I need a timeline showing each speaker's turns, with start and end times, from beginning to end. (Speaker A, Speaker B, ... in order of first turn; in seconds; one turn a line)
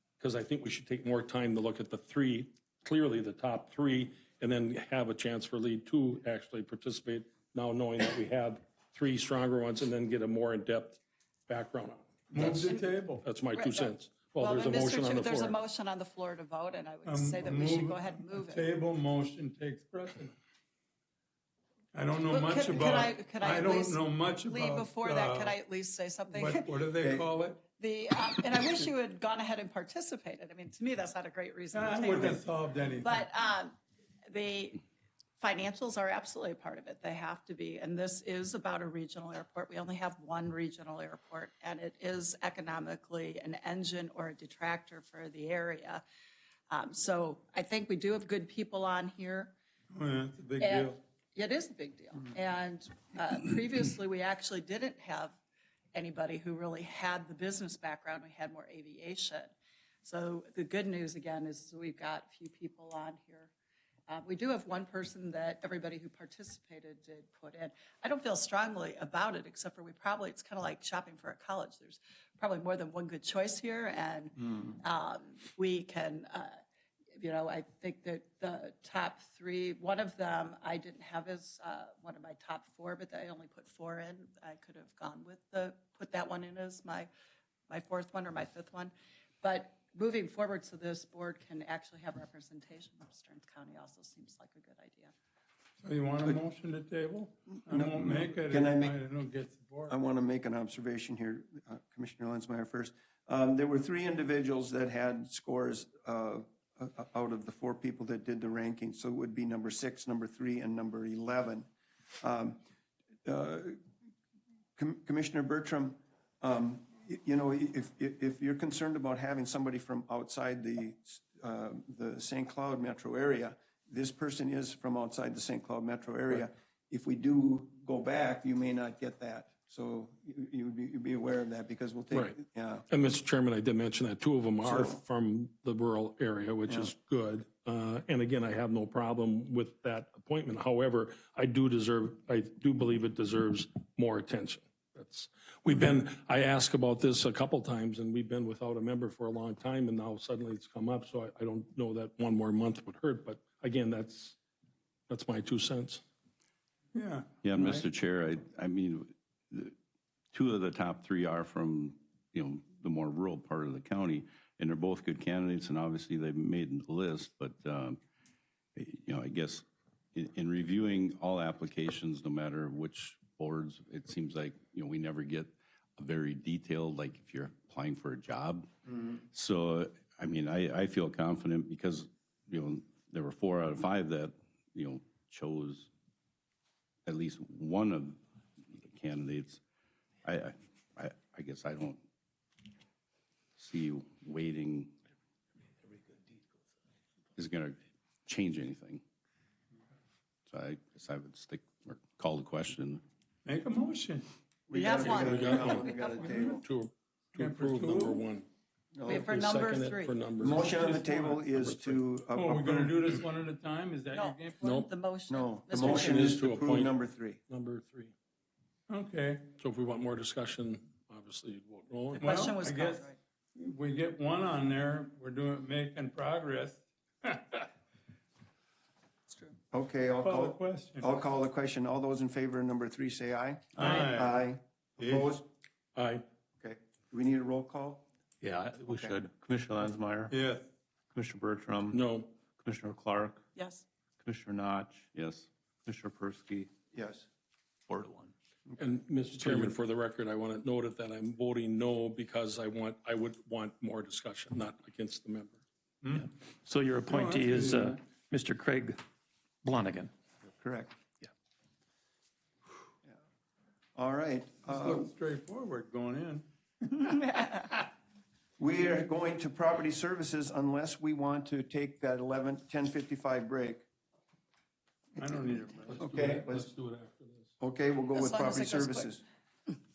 Speaker A: 0.2-12.6
Speaker B: 12.3-13.2
Speaker C: 12.4-12.9
Speaker A: 13.2-15.5
Speaker C: 13.5-18.7
Speaker B: 17.0-20.3
Speaker B: 21.9-25.5
Speaker C: 22.2-26.8
Speaker B: 26.3-27.6
Speaker D: 27.0-27.3
Speaker C: 27.7-33.8
Speaker B: 31.7-33.2
Speaker C: 34.3-34.8
Speaker C: 35.4-46.0
Speaker C: 46.7-49.5
Speaker B: 49.9-51.0
Speaker C: 50.6-55.4
Speaker C: 55.9-59.5
Speaker C: 60.0-63.5
Speaker C: 64.1-76.5
Speaker C: 77.2-87.1
Speaker C: 87.7-88.9
Speaker C: 89.4-95.1
Speaker B: 95.8-99.9
Speaker D: 97.7-99.0
Speaker D: 99.9-111.7
Speaker D: 112.2-112.6
Speaker D: 113.2-113.8
Speaker D: 114.8-132.9
Speaker A: 132.9-154.4
Speaker D: 134.6-135.0
Speaker A: 155.1-156.0
Speaker B: 156.9-157.8
Speaker E: 157.4-159.7
Speaker E: 160.3-168.0
Speaker E: 168.8-185.9
Speaker E: 187.1-189.6
Speaker E: 190.2-192.0
Speaker E: 193.6-194.9
Speaker E: 197.3-199.0
Speaker E: 200.5-203.0
Speaker B: 203.4-204.3
Speaker D: 204.7-206.6
Speaker C: 204.7-206.5
Speaker A: 204.9-208.5
Speaker B: 207.3-208.2
Speaker D: 208.9-209.3
Speaker C: 209.1-210.5
Speaker A: 209.1-212.0
Speaker D: 210.4-213.1
Speaker B: 212.3-214.6
Speaker C: 214.1-216.3
Speaker A: 214.6-214.9
Speaker D: 215.3-217.4
Speaker A: 215.7-216.9
Speaker A: 217.5-218.1
Speaker B: 218.9-219.5
Speaker A: 219.6-222.4
Speaker C: 222.2-223.2
Speaker B: 222.2-227.7
Speaker C: 229.3-229.6
Speaker D: 229.7-235.5
Speaker B: 230.2-231.1
Speaker B: 233.8-234.4
Speaker B: 235.0-235.2
Speaker A: 235.9-236.2
Speaker D: 236.6-238.0
Speaker F: 238.4-240.3
Speaker D: 238.9-239.1
Speaker B: 240.3-240.7
Speaker F: 241.2-241.9
Speaker A: 241.9-242.3
Speaker F: 242.8-243.3
Speaker C: 243.6-243.8
Speaker F: 244.4-245.0
Speaker E: 245.1-245.5
Speaker F: 246.1-246.7
Speaker D: 246.9-247.2
Speaker F: 247.9-248.3
Speaker A: 248.8-255.6
Speaker B: 256.0-256.3
Speaker G: 256.1-259.0
Speaker B: 257.1-258.0
Speaker G: 259.6-260.1
Speaker D: 260.4-260.9
Speaker D: 263.9-265.1
Speaker B: 264.6-267.7
Speaker D: 268.6-273.9
Speaker B: 275.2-276.0
Speaker A: 275.9-277.5
Speaker D: 275.9-276.7
Speaker D: 277.6-279.2
Speaker C: 278.1-279.1